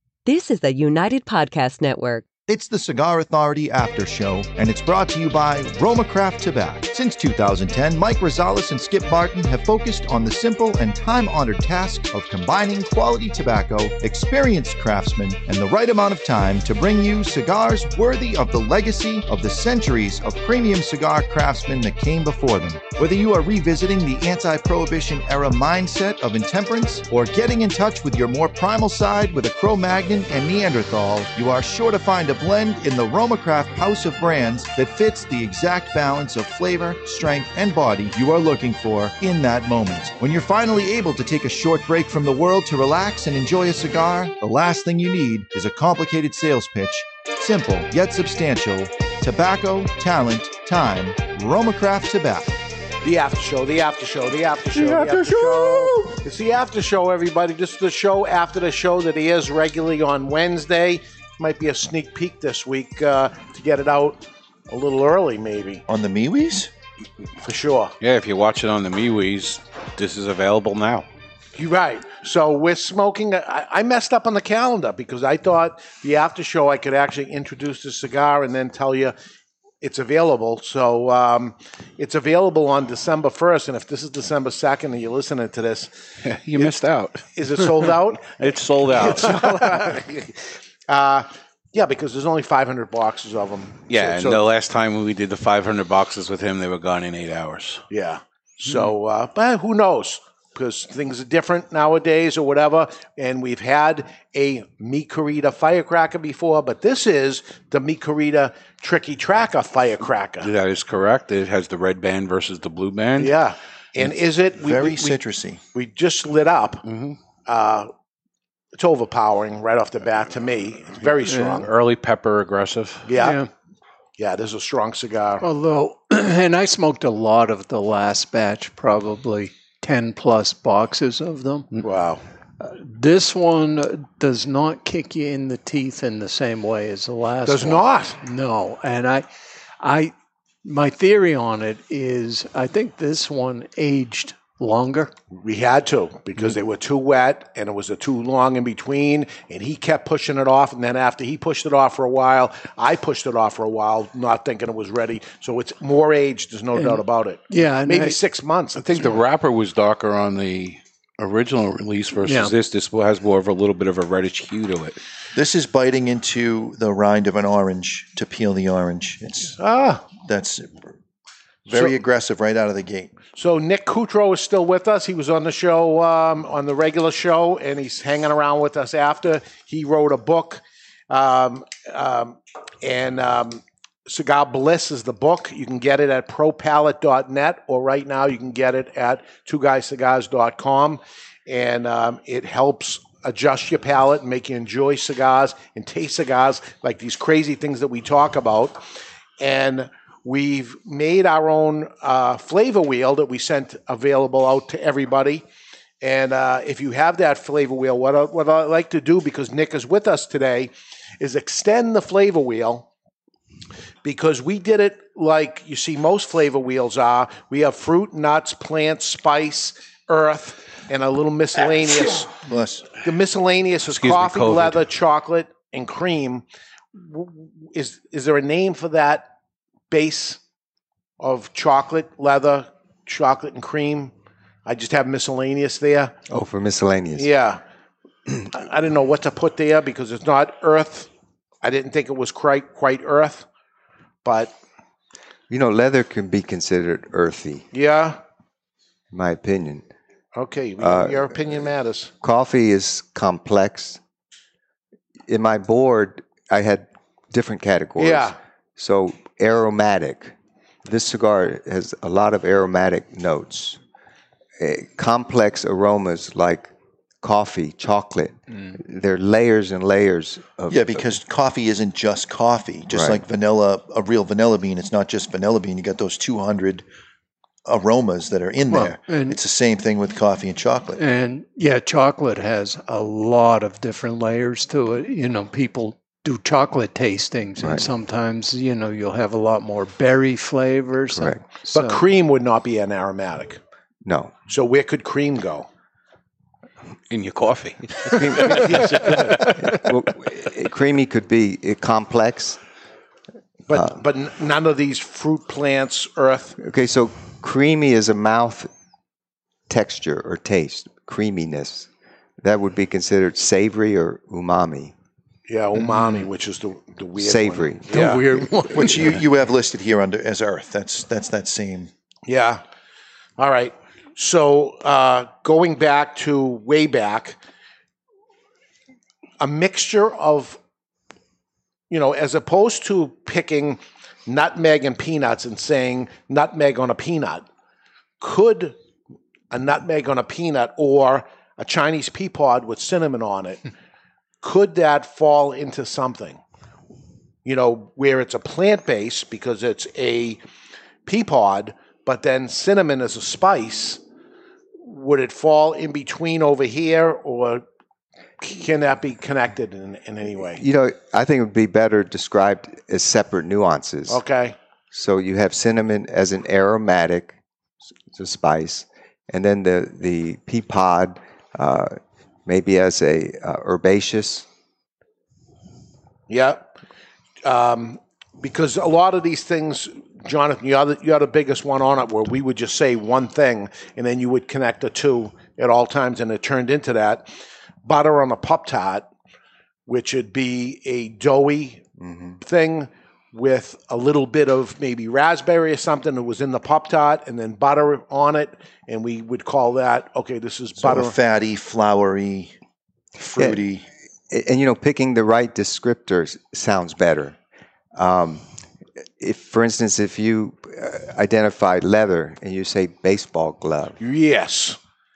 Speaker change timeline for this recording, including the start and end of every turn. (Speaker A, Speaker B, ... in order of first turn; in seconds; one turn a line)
Speaker A: 0.2-2.2
Speaker B: 2.5-52.5
Speaker C: 53.0-65.8
Speaker B: 54.7-56.1
Speaker B: 65.9-66.7
Speaker C: 67.4-67.9
Speaker D: 68.0-71.0
Speaker C: 71.5-79.1
Speaker C: 79.8-85.9
Speaker D: 86.2-87.2
Speaker C: 87.3-94.4
Speaker D: 88.3-89.7
Speaker D: 93.9-97.8
Speaker C: 97.9-110.5
Speaker D: 110.4-113.3
Speaker C: 113.2-115.2
Speaker B: 114.5-115.6
Speaker C: 115.7-116.8
Speaker D: 116.8-117.2
Speaker C: 117.5-117.9
Speaker C: 118.7-121.7
Speaker E: 121.3-121.6
Speaker D: 121.6-123.1
Speaker C: 123.1-123.4
Speaker E: 123.2-123.5
Speaker C: 124.2-125.4
Speaker E: 125.4-131.7
Speaker C: 131.8-132.2
Speaker E: 132.6-139.3
Speaker C: 137.4-138.2
Speaker E: 139.8-145.1
Speaker C: 145.3-159.0
Speaker E: 156.7-158.2
Speaker D: 158.8-164.9
Speaker E: 162.2-162.5
Speaker B: 165.3-169.6
Speaker C: 169.6-170.0
Speaker B: 170.2-170.8
Speaker B: 171.7-173.1
Speaker C: 173.3-198.8
Speaker C: 199.4-205.4
Speaker C: 206.0-212.9
Speaker C: 214.0-222.4
Speaker B: 222.4-222.9
Speaker C: 222.9-229.3
Speaker D: 223.9-224.8
Speaker C: 229.9-230.4
Speaker C: 231.2-234.1
Speaker C: 234.7-236.1
Speaker F: 236.3-237.3
Speaker C: 237.2-237.6
Speaker C: 238.5-241.1
Speaker C: 241.6-243.4
Speaker C: 244.2-244.5
Speaker F: 245.5-247.6
Speaker C: 247.7-248.2
Speaker F: 249.1-249.9
Speaker C: 250.3-252.1
Speaker F: 250.8-251.3
Speaker F: 252.2-254.0
Speaker F: 255.3-263.8
Speaker C: 258.0-258.4
Speaker F: 264.6-266.7
Speaker F: 267.2-271.0
Speaker B: 270.7-276.8
Speaker F: 272.9-273.2
Speaker B: 277.6-281.0
Speaker E: 278.7-279.4
Speaker E: 280.9-292.1
Speaker F: 287.6-287.9
Speaker F: 291.1-291.4
Speaker C: 291.7-293.6
Speaker F: 294.0-294.3
Speaker C: 294.5-295.7
Speaker D: 297.1-299.6
Speaker F: 298.1-299.0
Speaker C: 298.7-299.1
Speaker F: 299.6-302.6
Speaker C: 303.7-306.6
Speaker F: 306.6-308.7
Speaker F: 309.7-311.9
Speaker F: 312.4-314.9
Speaker C: 315.5-319.1
Speaker F: 317.2-318.4
Speaker E: 318.0-319.1
Speaker B: 318.7-321.9
Speaker C: 322.3-322.6
Speaker C: 323.4-327.4
Speaker C: 329.4-330.6
Speaker C: 331.9-337.4
Speaker C: 338.2-338.8
Speaker C: 339.5-343.7
Speaker C: 344.4-346.4
Speaker C: 347.4-350.4
Speaker C: 351.1-354.0
Speaker C: 354.8-357.6
Speaker C: 358.4-360.6
Speaker F: 360.6-364.2
Speaker C: 364.1-364.6
Speaker F: 364.9-367.4
Speaker F: 368.1-374.4
Speaker C: 376.3-376.8
Speaker C: 377.4-387.2
Speaker C: 387.8-389.1
Speaker C: 389.9-391.8
Speaker F: 392.0-392.4
Speaker C: 392.4-401.1
Speaker B: 400.8-402.5
Speaker B: 403.2-403.9
Speaker F: 403.4-403.6
Speaker F: 404.3-407.4
Speaker F: 407.9-408.4
Speaker F: 409.2-414.0
Speaker C: 414.0-414.8